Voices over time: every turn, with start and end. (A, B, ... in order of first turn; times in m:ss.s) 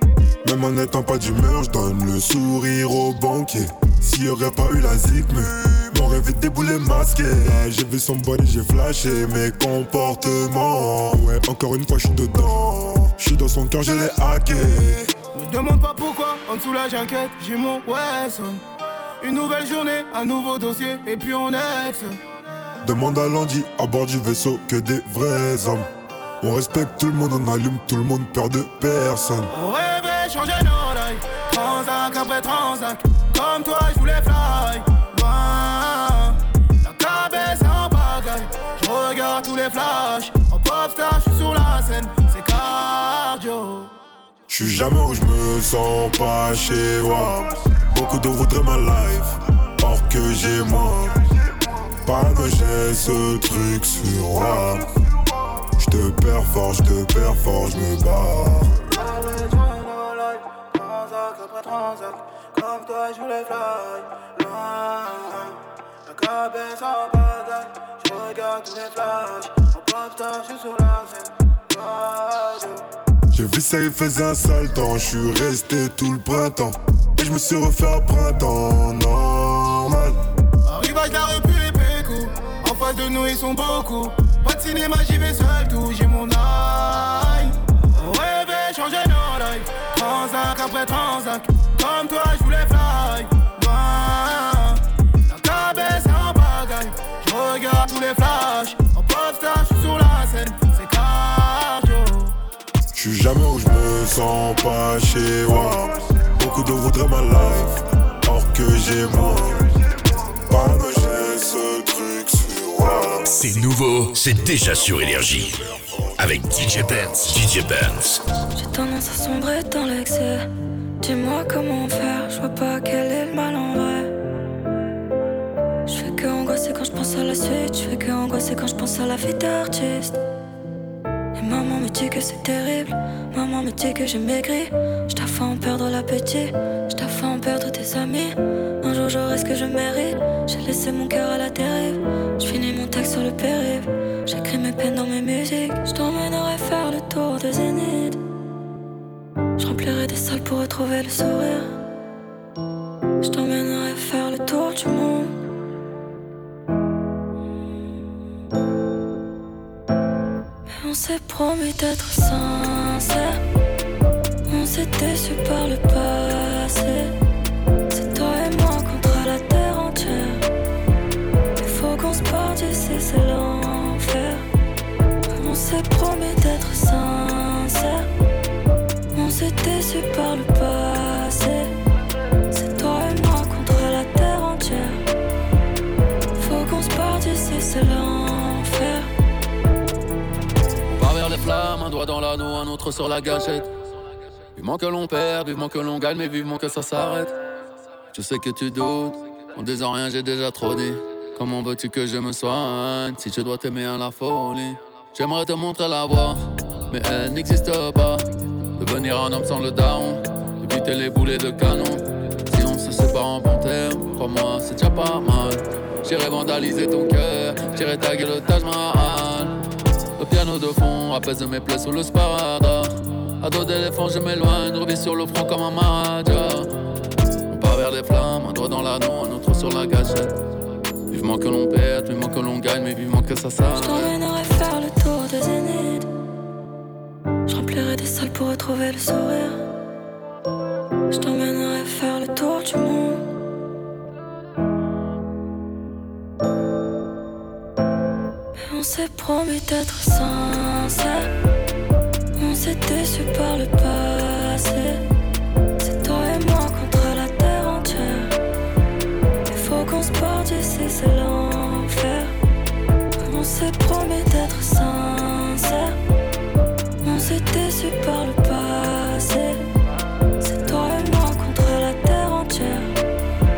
0:00.4-0:15.1 A
0:15.4-0:18.6 B
0:19.2-0:22.1 B
0:22.8-0:25.9 A
0:26.4-0:29.5 A
0:29.5-0:36.3 B
0:36.8-0:43.9 B
0:44.5-0:51.2 A
0:52.0-0:54.9 A
0:55.8-0:58.8 A
1:13.3-1:20.2 A
1:20.7-1:27.4 B
1:28.0-1:34.7 B
1:35.3-1:41.3 B
1:42.9-1:49.7 A
1:50.5-1:53.3 A
1:53.3-1:55.6 C
1:56.2-1:58.2 C
1:58.5-2:00.5 D
2:01.0-2:04.1 D
2:05.9-2:10.2 D
2:11.4-2:28.2 D
2:29.6-2:31.7 D
2:33.2-2:35.4 D
2:40.7-2:43.4 D
2:44.5-2:47.1 D
2:47.9-2:50.4 D
2:51.6-2:54.4 D
2:55.3-2:58.1 D
2:59.1-3:01.7 D
3:02.5-3:05.0 D
3:06.4-3:09.1 D
3:11.0-3:13.7 E
3:14.6-3:17.4 E
3:18.1-3:28.3 E
3:28.8-3:39.6 E
3:40.2-3:46.8 E
3:47.5-3:50.4 E
3:51.1-3:54.1 E
3:53.7-3:56.1 D
3:57.5-3:59.6 D
4:01.1-4:03.2 D
4:08.6-4:11.3 D
4:12.4-4:15.0 D
4:15.8-4:18.3 D
4:19.5-4:22.3 D
4:23.2-4:26.0 D
4:27.0-4:29.6 D
4:30.4-4:32.9 D